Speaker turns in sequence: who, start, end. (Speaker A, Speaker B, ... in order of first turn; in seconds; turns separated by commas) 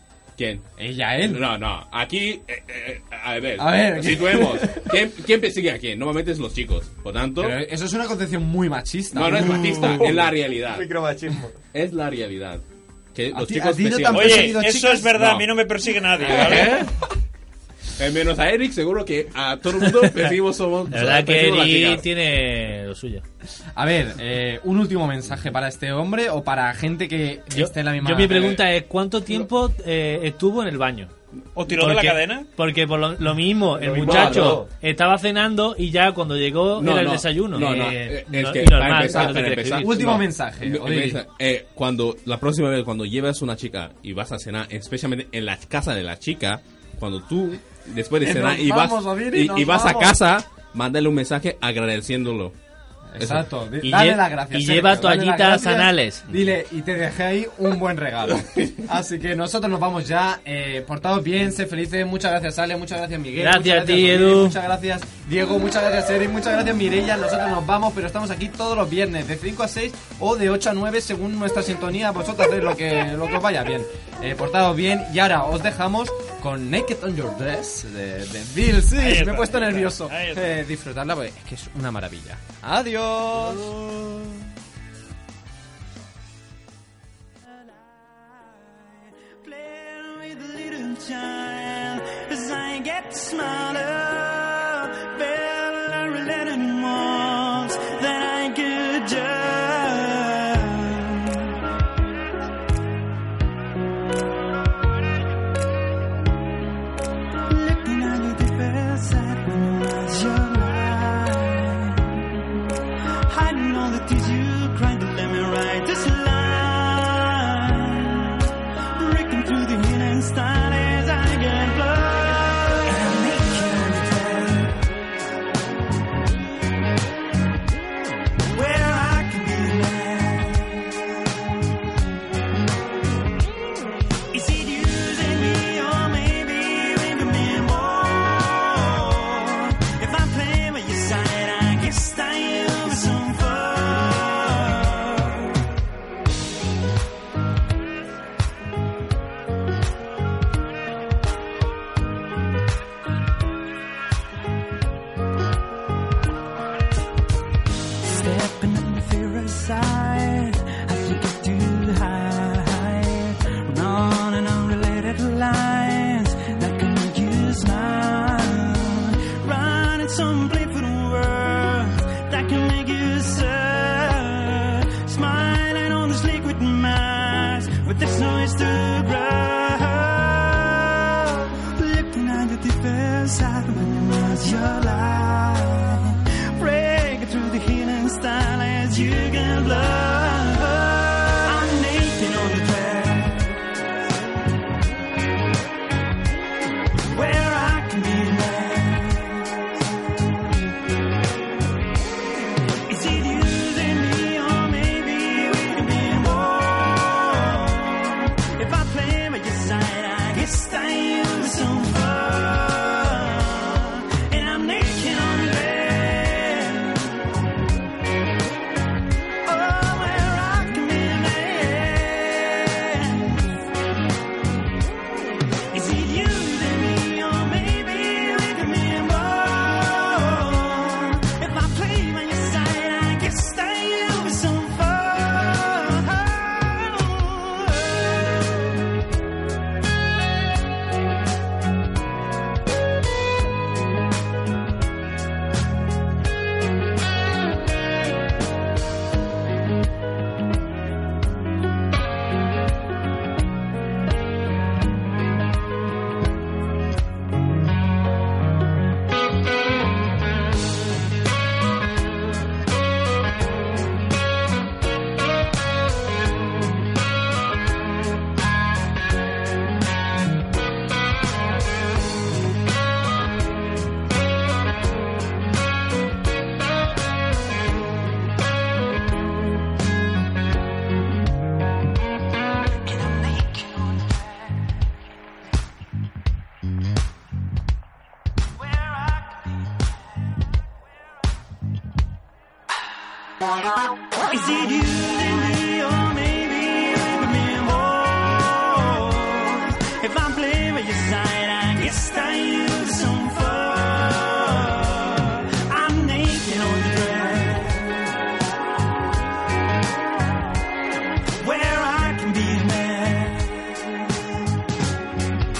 Speaker A: 0.3-0.7, Speaker B: 0.8-1.4, Speaker A: 1.2-7.6, Speaker B: 3.6-4.9, Speaker B: 7.4-10.2, Speaker A: 9.1-10.9, Speaker C: 9.3-11.6, Speaker A: 11.7-12.6, Speaker A: 13.1-15.5, Speaker B: 13.3-15.1, Speaker D: 14.1-16.9, Speaker A: 16.2-16.9, Speaker A: 17.9-22.1, Speaker E: 19.9-20.4, Speaker E: 20.9-23.2, Speaker B: 23.7-28.6, Speaker E: 27.5-31.1, Speaker D: 31.5-32.5, Speaker E: 31.7-40.2, Speaker C: 33.7-34.7, Speaker A: 33.9-34.6, Speaker A: 36.7-52.5, Speaker B: 37.6-38.2, Speaker B: 39.1-41.2, Speaker B: 48.2-50.1, Speaker B: 53.1-83.7, Speaker A: 53.2-53.5, Speaker E: 53.8-56.2, Speaker E: 63.4-64.6, Speaker D: 78.9-80.6, Speaker D: 83.4-84.2, Speaker F: 87.6-101.5, Speaker F: 107.5-112.4, Speaker F: 113.3-124.8, Speaker F: 128.5-131.0, Speaker F: 134.3-145.5, Speaker F: 158.0-193.6, Speaker F: 197.1-199.7, Speaker F: 202.8-217.2, Speaker F: 219.4-223.5, Speaker F: 225.7-238.6, Speaker F: 282.8-284.4, Speaker F: 288.6-289.5, Speaker F: 294.2-308.2, Speaker F: 311.4-314.1